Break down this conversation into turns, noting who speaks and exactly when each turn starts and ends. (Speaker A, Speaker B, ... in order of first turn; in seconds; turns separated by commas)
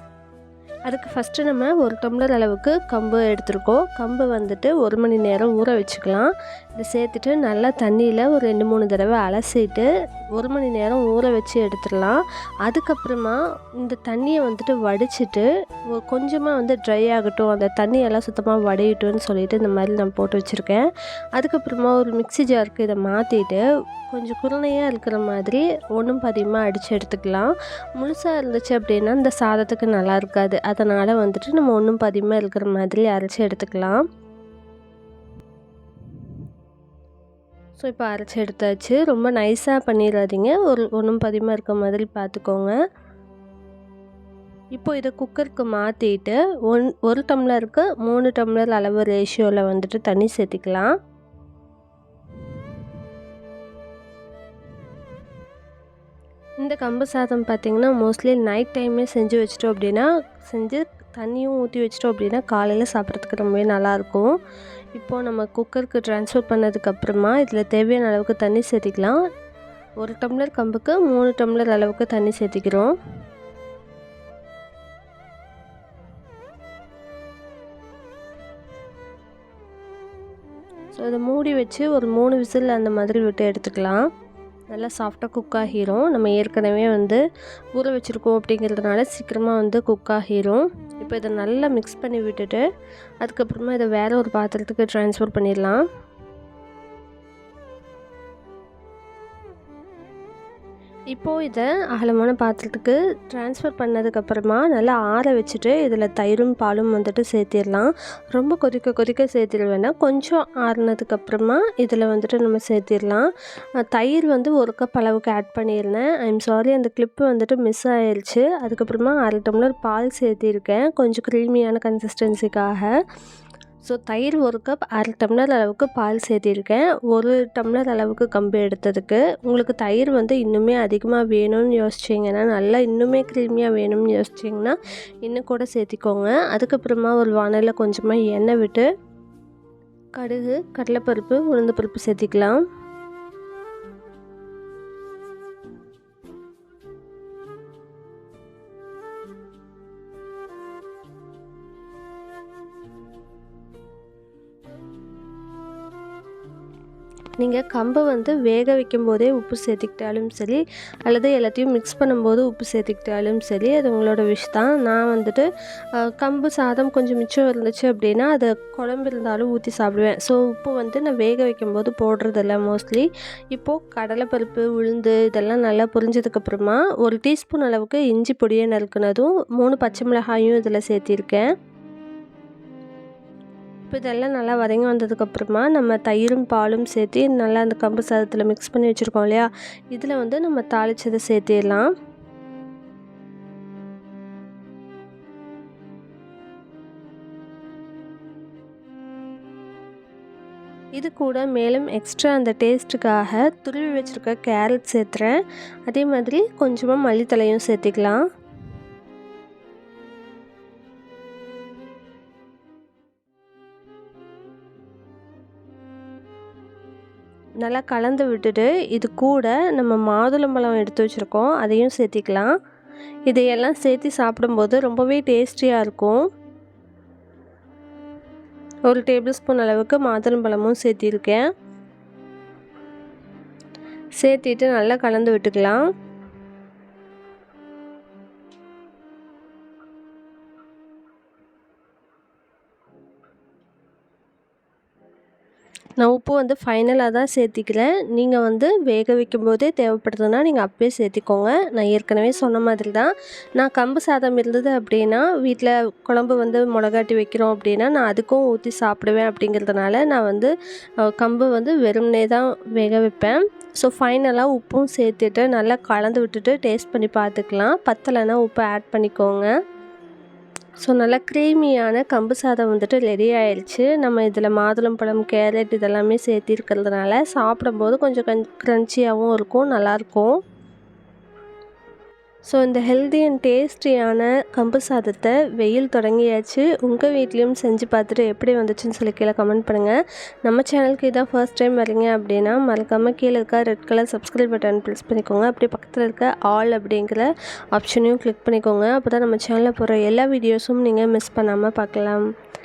Speaker A: 0.9-20.9, Speaker A: 21.4-34.0, Speaker A: 37.8-42.7, Speaker A: 44.7-50.9, Speaker A: 56.6-64.3, Speaker A: 64.9-69.2, Speaker A: 70.0-72.9, Speaker A: 80.9-84.0, Speaker A: 84.7-87.2, Speaker A: 87.7-92.6, Speaker A: 93.2-95.8, Speaker A: 101.1-113.3, Speaker A: 113.9-122.9, Speaker A: 123.8-138.8, Speaker A: 140.2-142.6, Speaker A: 157.4-165.4, Speaker A: 166.0-181.4, Speaker A: 183.9-191.9, Speaker A: 201.0-208.2, Speaker A: 217.6-222.5, Speaker A: 223.3-226.2, Speaker A: 228.9-231.4, Speaker A: 234.2-235.8, Speaker A: 246.0-260.5, Speaker A: 261.1-269.5, Speaker A: 270.8-280.4, Speaker A: 282.5-302.2